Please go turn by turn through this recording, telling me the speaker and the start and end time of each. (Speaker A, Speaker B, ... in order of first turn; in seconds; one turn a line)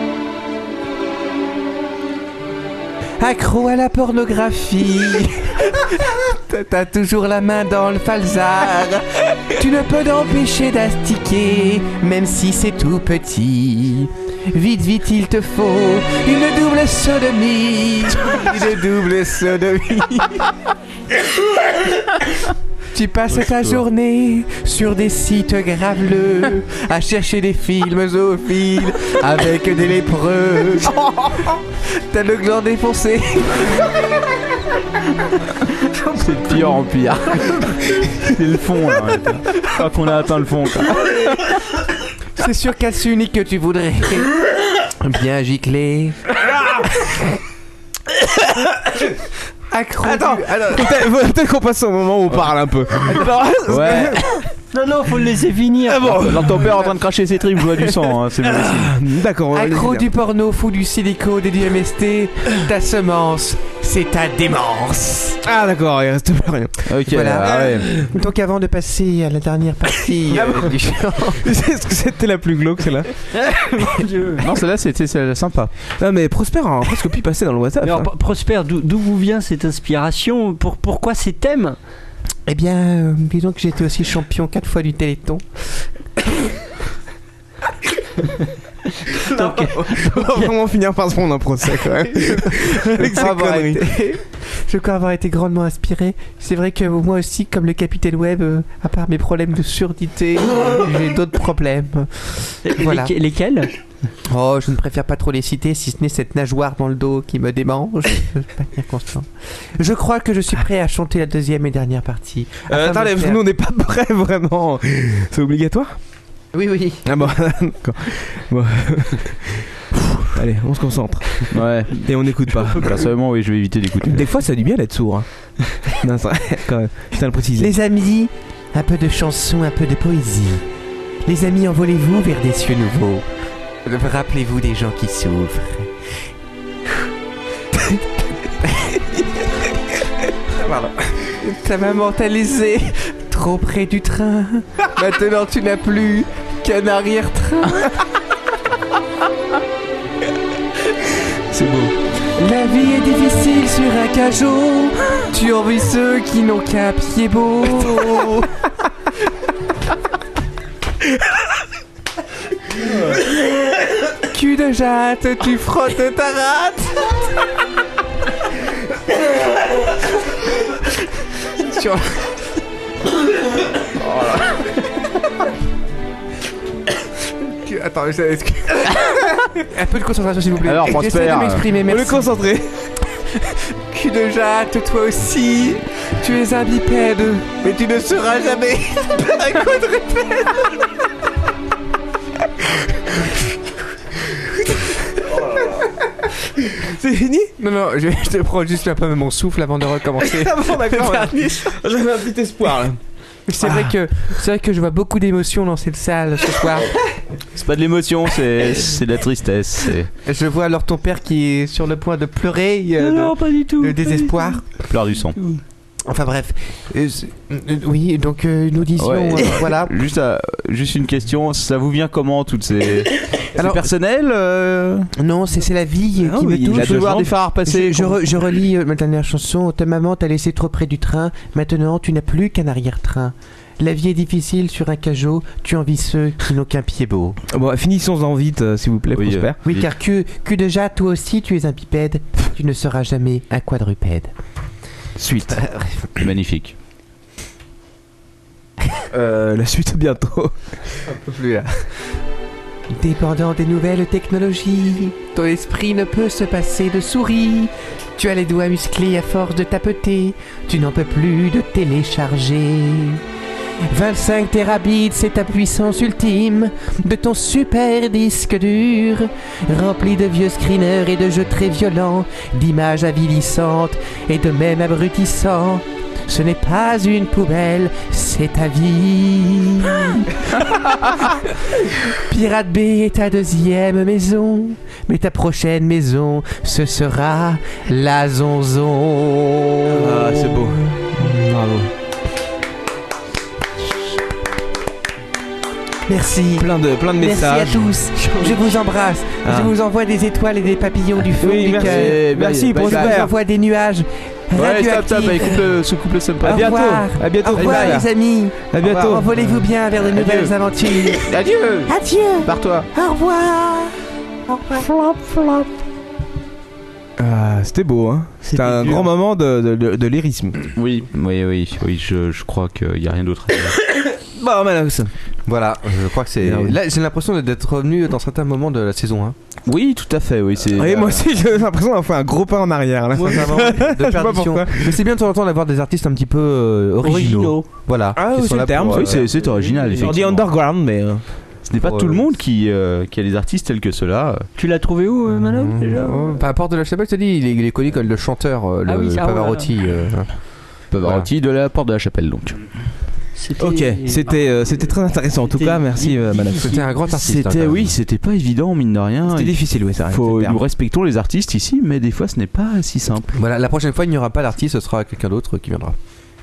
Speaker A: 3.2-20.5
Speaker A: 22.9-33.9
Speaker B: 36.1-41.5
Speaker A: 42.4-44.3
Speaker A: 45.0-46.2
Speaker A: 49.7-51.0
Speaker C: 50.0-54.4
Speaker B: 53.7-54.2
Speaker D: 54.7-56.4
Speaker C: 55.9-56.7
Speaker B: 56.1-59.0
Speaker C: 57.9-60.1
Speaker A: 59.5-65.4
Speaker C: 65.4-67.0
Speaker B: 66.9-68.0
Speaker A: 67.1-71.5
Speaker C: 70.3-73.1
Speaker D: 73.3-74.4
Speaker B: 74.4-75.7
Speaker C: 76.0-78.1
Speaker D: 77.8-81.8
Speaker A: 82.5-85.5
Speaker D: 89.1-90.5
Speaker C: 89.2-94.0
Speaker A: 93.0-103.1
Speaker D: 102.6-103.7
Speaker A: 104.3-113.4
Speaker C: 112.7-116.0
Speaker A: 116.5-117.0
Speaker C: 117.0-123.0
Speaker B: 121.5-124.3
Speaker C: 124.0-127.7
Speaker A: 127.6-130.6
Speaker A: 131.2-133.2
Speaker A: 133.8-135.9
Speaker A: 141.4-147.9
Speaker C: 151.5-151.9
Speaker A: 152.4-158.5
Speaker A: 164.3-167.1
Speaker A: 171.6-172.1
Speaker A: 177.7-182.3
Speaker B: 180.6-181.7
Speaker C: 181.8-182.8
Speaker A: 183.9-190.7
Speaker C: 196.8-197.5
Speaker A: 197.6-201.7
Speaker C: 200.2-203.0
Speaker A: 203.5-207.0
Speaker C: 203.6-203.9
Speaker B: 207.5-210.1
Speaker A: 210.2-214.7
Speaker D: 213.0-214.6
Speaker B: 214.9-215.4
Speaker A: 216.1-220.0
Speaker B: 219.0-225.1
Speaker A: 223.5-223.9
Speaker A: 225.2-237.4
Speaker C: 226.2-227.3
Speaker B: 226.7-228.2
Speaker C: 237.5-239.6
Speaker B: 239.1-239.8
Speaker A: 239.6-244.3
Speaker C: 245.2-245.6
Speaker A: 245.5-246.1
Speaker B: 246.2-246.8
Speaker C: 249.1-250.6
Speaker E: 251.2-251.6
Speaker A: 252.9-263.2
Speaker A: 263.9-280.2
Speaker A: 282.2-291.3
Speaker C: 289.9-291.9
Speaker A: 296.1-302.2
Speaker C: 296.6-298.7
Speaker C: 299.4-299.7
Speaker C: 301.2-303.3
Speaker B: 301.7-303.2
Speaker A: 302.8-305.7
Speaker B: 304.5-306.7
Speaker A: 306.4-311.3
Speaker C: 306.4-308.1
Speaker B: 307.5-308.0
Speaker C: 308.7-309.5
Speaker B: 310.1-310.5
Speaker B: 311.1-312.9
Speaker A: 311.9-313.9
Speaker A: 314.5-315.7
Speaker C: 317.2-320.6
Speaker D: 318.4-319.0
Speaker B: 320.8-323.8
Speaker C: 323.9-325.1
Speaker E: 325.4-329.4
Speaker C: 326.4-326.8
Speaker B: 329.6-331.3
Speaker C: 330.7-334.9
Speaker E: 333.1-339.3
Speaker A: 333.3-333.6
Speaker D: 337.0-337.6
Speaker C: 338.1-341.2
Speaker B: 338.9-340.5
Speaker B: 341.6-344.5
Speaker E: 341.8-342.3
Speaker D: 344.6-346.4
Speaker E: 345.6-350.3
Speaker D: 348.9-349.7
Speaker E: 350.9-351.3
Speaker B: 350.9-352.6
Speaker D: 353.3-356.9
Speaker C: 353.6-356.9
Speaker E: 356.7-357.9
Speaker B: 357.1-363.4
Speaker C: 359.3-360.6
Speaker E: 363.4-365.9